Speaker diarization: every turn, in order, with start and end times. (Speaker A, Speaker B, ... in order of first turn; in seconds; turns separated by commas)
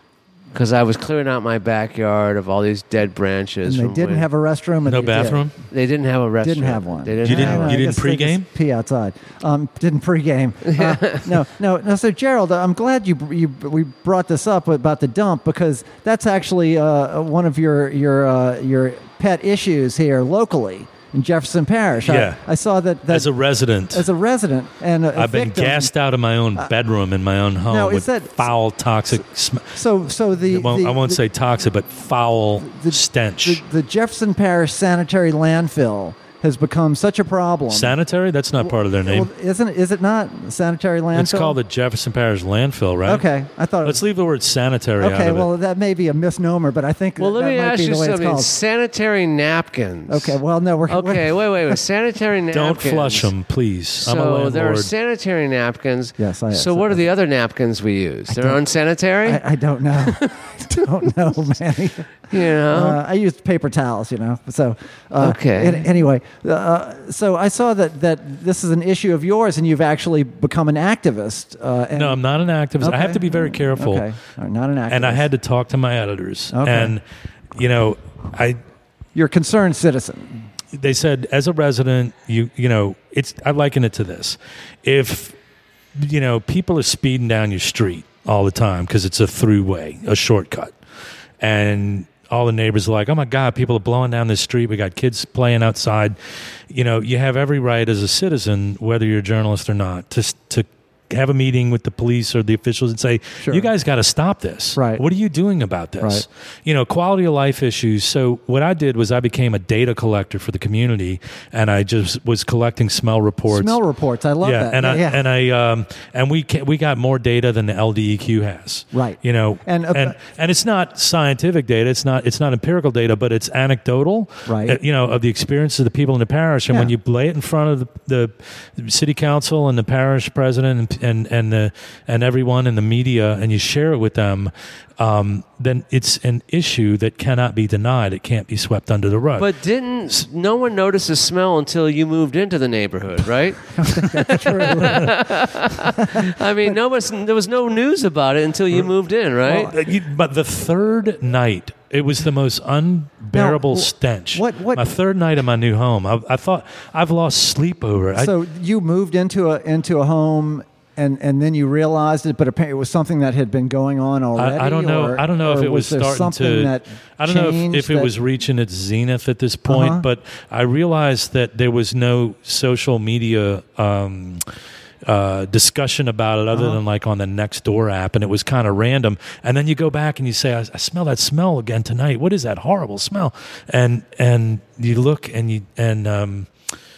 Speaker A: 0.5-4.3, Speaker B: 3.7-5.4, Speaker C: 4.9-5.5, Speaker A: 5.7-7.8, Speaker B: 6.4-23.3, Speaker C: 7.2-8.5, Speaker A: 10.7-11.2, Speaker C: 22.1-22.4, Speaker C: 23.1-24.1, Speaker B: 23.9-25.9, Speaker C: 25.1-29.8, Speaker B: 27.7-28.4, Speaker B: 29.7-31.2, Speaker C: 30.4-33.6, Speaker B: 32.6-38.0, Speaker C: 37.7-39.3, Speaker B: 38.6-41.6, Speaker C: 41.1-43.2, Speaker B: 43.1-44.0, Speaker C: 43.8-45.5, Speaker B: 45.0-48.5, Speaker A: 47.2-50.4, Speaker B: 50.1-51.8, Speaker A: 50.9-53.3, Speaker C: 52.5-54.9, Speaker A: 54.0-59.4, Speaker B: 56.2-57.0, Speaker B: 58.3-58.6, Speaker B: 59.2-72.2, Speaker A: 60.0-60.8, Speaker A: 62.3-63.0, Speaker A: 65.2-65.9, Speaker C: 72.0-74.1, Speaker B: 72.8-75.3, Speaker C: 74.9-77.0, Speaker B: 76.5-77.0, Speaker C: 77.5-78.6, Speaker B: 79.1-80.5, Speaker C: 80.7-85.4, Speaker C: 86.0-90.7, Speaker C: 91.4-96.1, Speaker C: 96.7-113.8, Speaker B: 103.4-103.7, Speaker B: 104.8-105.0, Speaker B: 113.5-115.2, Speaker C: 114.4-139.5, Speaker B: 118.9-120.1, Speaker B: 124.5-124.8, Speaker A: 139.4-149.7, Speaker B: 143.8-145.1, Speaker C: 144.0-145.1, Speaker B: 146.0-146.8, Speaker C: 149.5-158.3, Speaker B: 153.3-154.8, Speaker B: 158.1-168.1, Speaker C: 164.4-174.5, Speaker B: 169.7-170.0, Speaker C: 175.1-186.5, Speaker B: 176.5-176.8